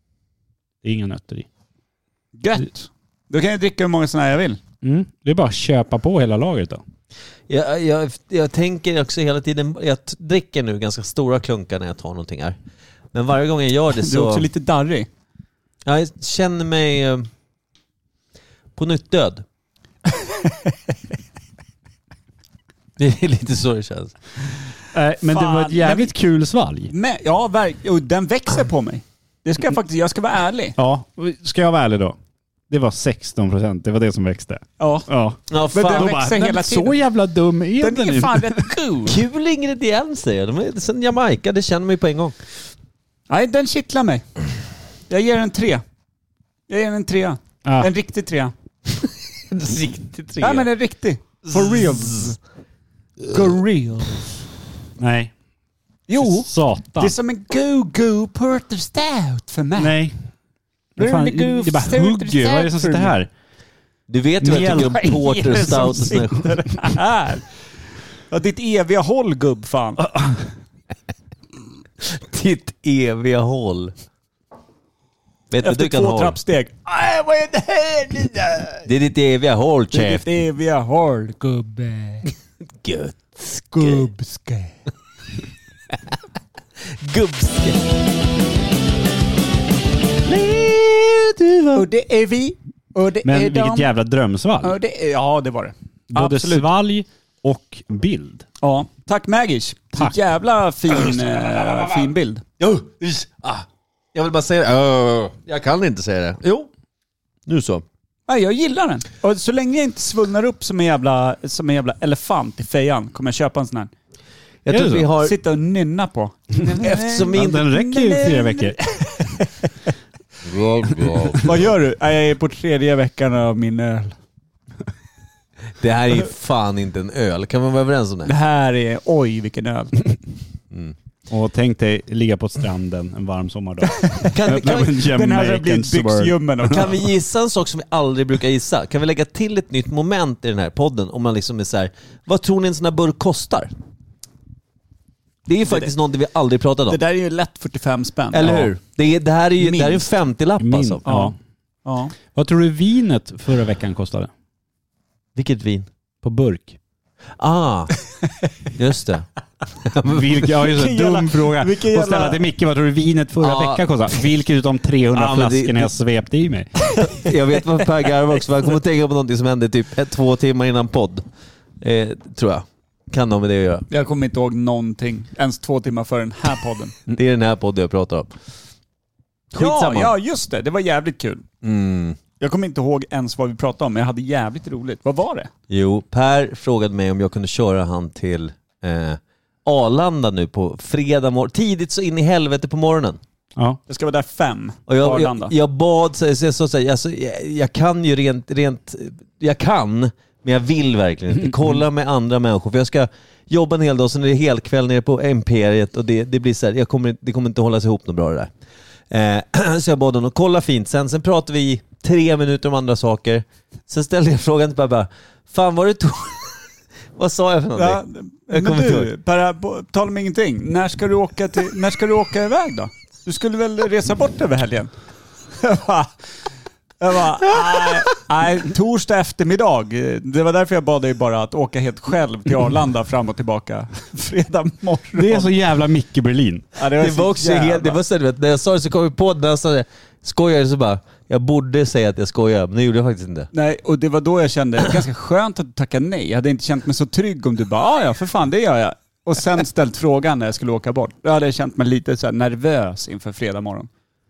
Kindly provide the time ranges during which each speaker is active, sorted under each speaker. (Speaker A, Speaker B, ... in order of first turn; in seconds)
Speaker A: 0.8-1.5, 4.8-6.8, 24.9-26.9, 30.8-32.2, 32.7-38.7, 47.6-47.9, 55.0-55.3, 56.2-57.1, 59.8-60.1, 61.0-63.3, 64.4-65.7, 93.2-94.8, 96.1-98.5, 114.7-115.1, 117.3-118.8, 131.3-136.4, 150.6-151.4, 152.3-154.3, 156.2-156.8, 160.1-166.9, 235.1-236.7
Speaker B: 2.4-4.6, 14.0-15.1, 25.3-26.1, 26.9-30.8, 34.8-35.1, 35.7-37.0, 37.8-39.2, 43.3-44.3, 45.1-45.8, 46.7-48.5, 50.4-52.4, 53.3-54.2, 56.1-60.0, 61.0-63.1, 64.5-67.5, 68.3-70.1, 75.6-78.8, 79.9-82.3, 83.7-84.8, 91.7-93.9, 94.6-96.7, 98.6-102.4, 108.3-113.9, 115.2-119.7, 121.2-124.2, 128.2-130.2, 134.0-137.0, 145.7-145.9, 146.9-148.7, 149.6-150.1, 151.1-152.2, 160.7-162.4, 173.9-176.9, 179.6-181.4, 182.4-185.5, 193.9-195.5, 217.8-224.9, 225.6-226.1, 227.0-235.5, 236.8-238.0, 243.5-253.9
Speaker C: 7.5-12.6, 13.1-14.5, 15.8-17.3, 18.8-19.4, 23.0-24.2, 35.5-36.2, 39.1-42.4, 49.0-50.7, 51.5-52.3, 64.1-66.9, 72.0-73.9, 75.5-76.4, 78.8-80.2, 82.8-84.1, 87.0-87.8, 90.2-91.9, 102.6-106.7, 107.5-107.8, 114.6-115.4, 116.8-117.7, 120.5-121.6, 125.8-128.3, 134.3-135.0, 136.6-143.7, 145.5-147.0, 148.3-151.0, 155.4-155.9, 157.4-158.0, 158.8-159.3, 159.8-160.5, 163.4-164.2, 165.1-165.9, 167.0-171.2, 171.8-173.9, 177.1-178.3, 179.5-180.1, 181.6-182.2, 185.7-193.2, 194.9-208.5, 209.1-216.6, 217.2-219.1, 237.0-243.5